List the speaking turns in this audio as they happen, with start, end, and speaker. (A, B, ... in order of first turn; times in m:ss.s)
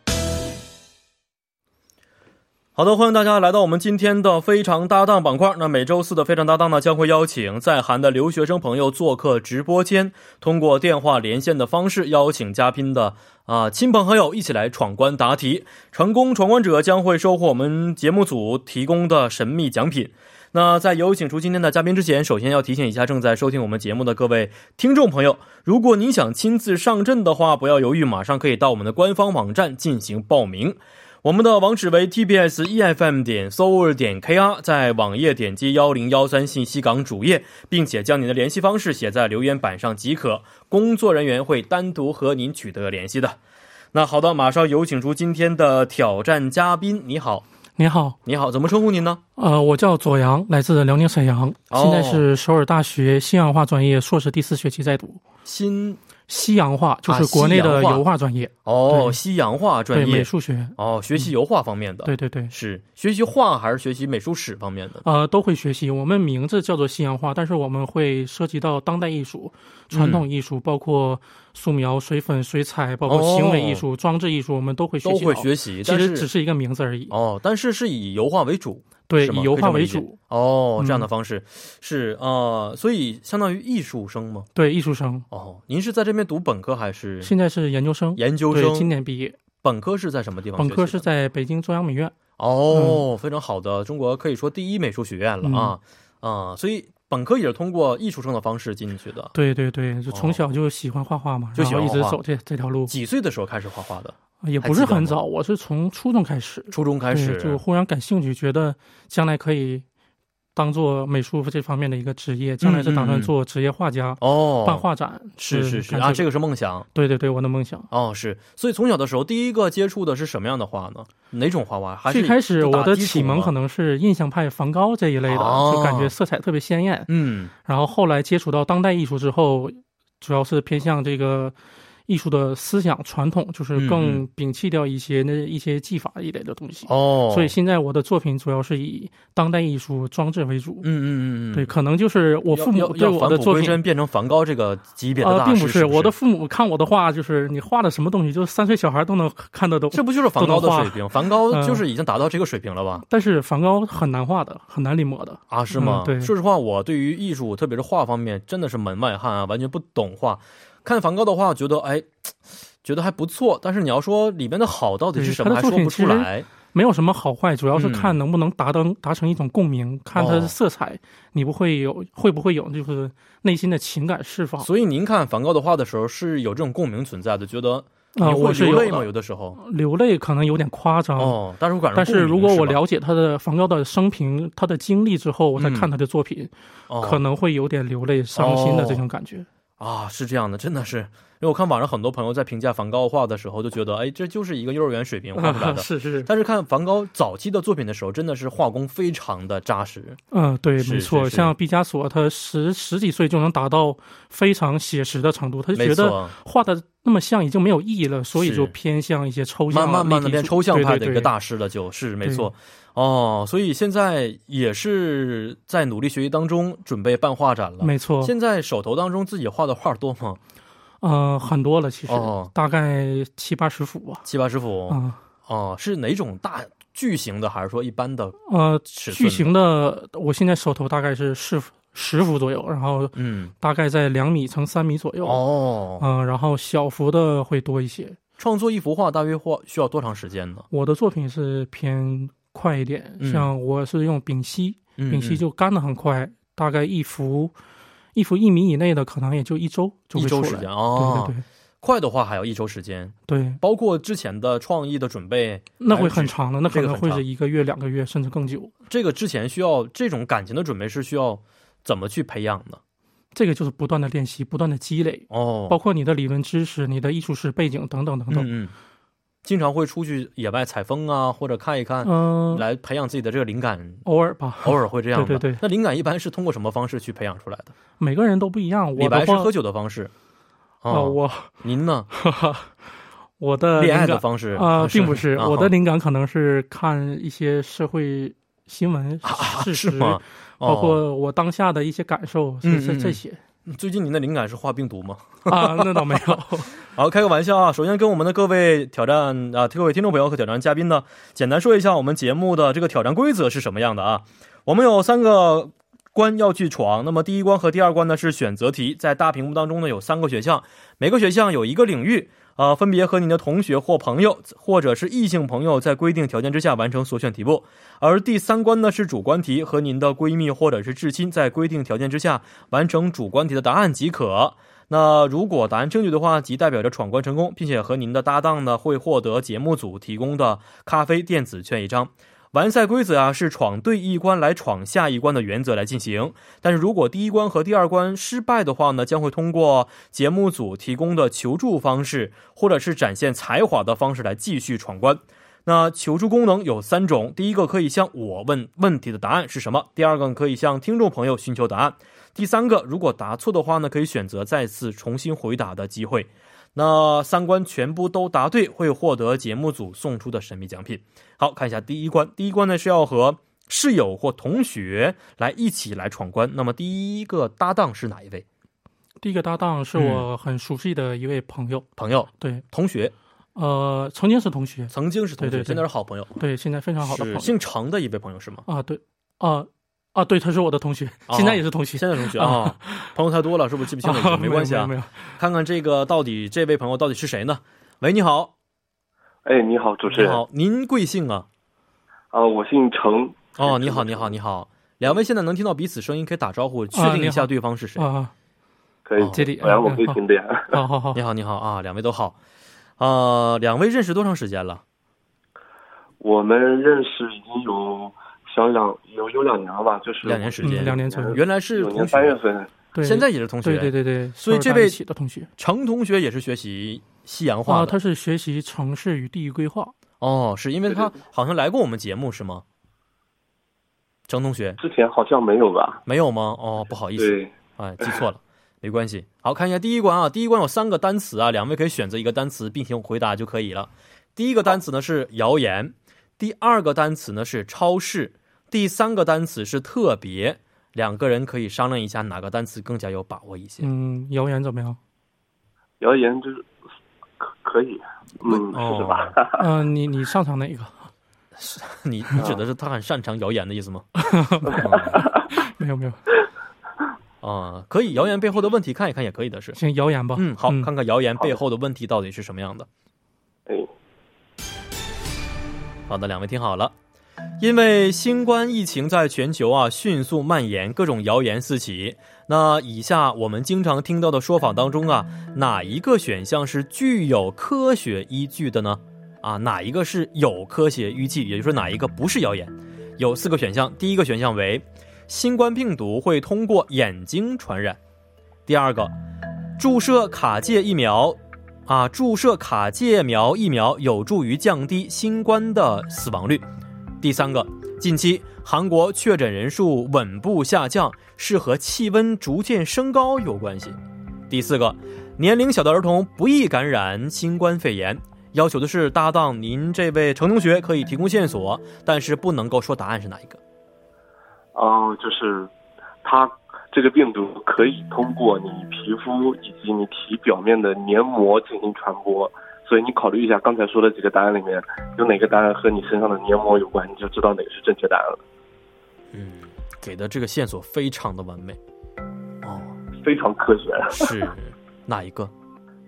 0:02.8-0:43.4 A
0:43.9-0:47.4 A
0:47.8-0:48.2 B
0:48.2-0:49.2 A
0:49.4-0:55.2 B
0:51.7-0:52.3 A
0:55.4-0:56.0 A
0:56.3-0:59.2 B
0:57.1-0:58.0 A
0:58.7-1:05.0 A
0:59.9-1:01.3 B
1:02.0-1:02.5 B
1:05.0-1:17.2 B
1:09.9-1:10.2 A
1:13.1-1:13.8 A
1:15.0-1:16.3 A
1:17.1-1:24.5 A
1:19.1-1:20.2 B
1:20.8-1:21.1 B
1:24.6-1:25.3 B
1:25.3-1:27.3 A
1:27.2-1:29.4 B
1:28.2-1:28.9 A
1:29.6-1:31.0 A
1:30.6-1:32.2 B
1:32.4-1:39.3 A
1:32.7-1:33.0 B
1:35.4-1:35.8 B
1:39.3-1:42.9 B
1:40.1-1:40.4 A
1:41.6-1:42.2 A
1:42.9-1:45.2 A
1:44.4-1:49.8 B
1:46.7-1:47.6 A
1:50.6-1:56.3 B
1:52.6-1:53.3 A
1:54.2-1:54.9 A
1:55.4-1:56.9 A
1:56.9-1:57.9 B
1:57.9-2:03.5 A
2:02.1-2:07.1 B
2:05.3-2:06.1 A
2:07.1-2:07.5 A
2:07.6-2:20.9 B
2:13.8-2:14.2 A
2:16.9-2:17.6 A
2:20.8-2:21.7 A
2:21.5-2:23.8 B
2:22.5-2:26.1 A
2:25.2-2:31.8 B
2:29.9-2:33.1 A
2:33.1-2:36.3 B
2:35.5-2:42.3 A
2:42.8-2:46.5 A
2:45.2-2:54.7 B
2:47.8-2:48.2 A
2:50.1-2:50.6 A
2:54.6-2:59.6 A
2:58.2-3:01.4 B
3:01.2-3:02.8 A
3:02.0-3:09.5 B
3:05.6-3:05.9 A
3:06.9-3:07.2 A
3:08.4-3:09.0 A
3:09.8-3:20.2 A
3:15.4-3:16.3 B
3:20.3-3:31.3 B
3:20.8-3:21.5 A
3:25.8-3:26.3 A
3:28.4-3:28.7 A
3:29.7-3:40.4 A
3:32.2-3:32.5 B
3:37.8-3:38.3 B
3:41.0-3:44.3 B
3:42.1-3:42.5 A
3:44.3-3:48.4 A
3:44.9-3:45.2 B
3:48.5-3:55.4 B
3:49.0-3:49.5 A
3:53.2-3:53.5 A
3:55.2-3:56.1 A
3:56.0-3:58.2 B
3:58.4-4:00.7 A
4:00.7-4:07.6 B
4:03.2-4:03.5 A
4:05.0-4:05.4 A
4:08.1-4:11.4 B
4:10.2-4:17.2 A
4:13.3-4:13.6 B
4:15.8-4:18.7 B
4:18.9-4:22.8 A
4:23.3-4:28.5 B
4:25.3-4:25.8 A
4:28.3-4:28.7 A
4:29.4-4:34.0 A
4:32.0-4:32.6 B
4:34.0-4:35.6 B
4:34.6-4:37.7 A
4:38.0-4:39.5 B
4:39.0-4:40.1 A
4:40.8-4:42.1 A
4:40.9-4:41.5 B
4:42.1-4:42.9 B
4:43.4-4:53.4 B
4:43.8-4:45.7 A
4:49.2-4:51.0 A
4:52.6-4:56.4 A
4:55.5-4:56.8 B
4:56.9-6:08.4 A
6:09.2-6:11.9 B
6:10.0-6:10.3 A
6:12.0-6:13.1 A
6:12.4-6:12.6 B
6:13.6-6:15.8 B
6:14.9-6:16.4 A
6:16.4-6:17.6 B
6:17.0-6:18.6 A
6:18.7-6:23.1 B
6:21.3-6:28.5 A
6:24.0-6:25.3 B
6:29.4-6:30.4 C
6:30.1-6:31.5 A
6:32.3-6:34.3 C
6:33.6-6:38.1 A
6:36.9-6:38.3 B
6:39.1-6:40.8 C
6:39.2-6:39.5 A
6:39.3-6:40.2 B
6:40.7-6:41.2 B
6:41.1-6:42.4 A
6:43.0-6:44.8 A
6:46.2-6:52.7 C
6:50.2-6:52.4 A
6:50.6-6:51.4 B
6:52.9-6:55.5 B
6:53.0-6:55.0 A
6:55.6-6:58.0 A
6:57.7-7:00.0 B
7:00.2-7:02.6 A
7:04.3-7:04.8 A
7:04.8-7:06.0 C
7:06.1-7:23.9 A
7:07.2-7:07.5 C
7:23.8-7:25.0 B
7:26.0-7:26.7 C
7:27.4-7:29.6 C
7:28.5-7:29.3 A
7:29.6-7:31.1 B
7:31.6-7:35.2 A
7:34.2-7:36.2 B
7:37.4-7:39.8 A
7:39.8-7:40.9 B
7:40.4-7:42.9 A
7:46.1-7:46.9 A
7:47.6-8:08.0 A
8:08.7-8:09.1 A
8:09.8-8:16.6 A
8:17.2-8:24.0 A
8:24.5-8:33.6 A
8:34.8-8:35.7 C
8:36.2-8:48.4 C
8:49.3-8:51.8 A
8:52.6-8:53.0 A
8:53.2-8:54.3 C
8:54.1-8:55.5 A